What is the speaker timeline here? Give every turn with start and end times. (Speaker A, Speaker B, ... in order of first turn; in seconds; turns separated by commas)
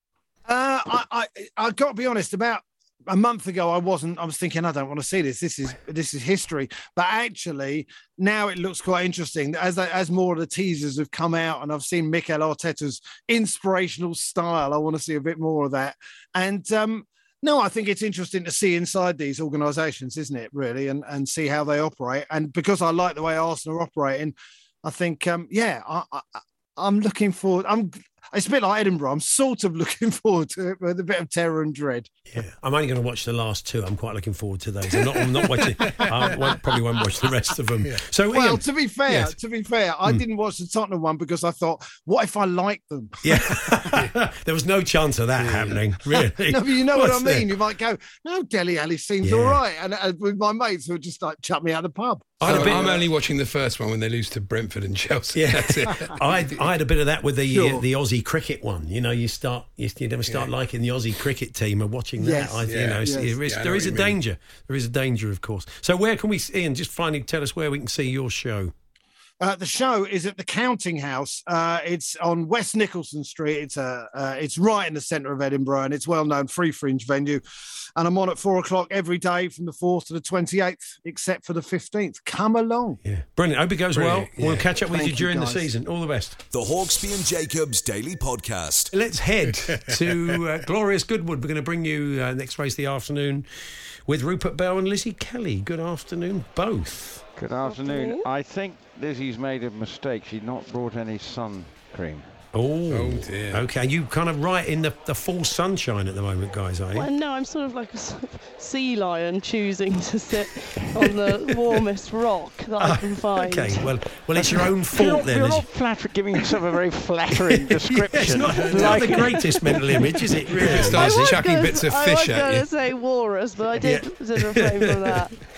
Speaker A: 0.5-32.1, Speaker B: 32.3-38.6, Speaker A: 38.3-44.0, Speaker B: 43.2-47.5, Speaker C: 45.4-45.8, Speaker A: 46.5-53.0, Speaker B: 49.2-49.6, Speaker B: 52.4-53.0, Speaker C: 52.4-56.3, Speaker B: 55.3-68.7, Speaker A: 57.5-57.8, Speaker A: 62.2-63.3, Speaker C: 62.7-64.2, Speaker A: 69.4-77.4, Speaker A: 78.0-83.0, Speaker B: 83.0-86.4, Speaker C: 83.9-84.7, Speaker A: 84.8-85.7, Speaker D: 86.5-88.9, Speaker B: 88.9-93.5, Speaker C: 89.7-90.1, Speaker B: 94.0-97.2, Speaker E: 97.3-102.3, Speaker F: 97.6-98.2, Speaker B: 102.5-107.1, Speaker C: 102.9-103.7, Speaker F: 106.9-113.9, Speaker B: 112.8-115.7, Speaker E: 114.9-119.3, Speaker B: 118.1-121.4, Speaker F: 118.6-125.4, Speaker C: 120.5-122.7, Speaker B: 123.8-125.1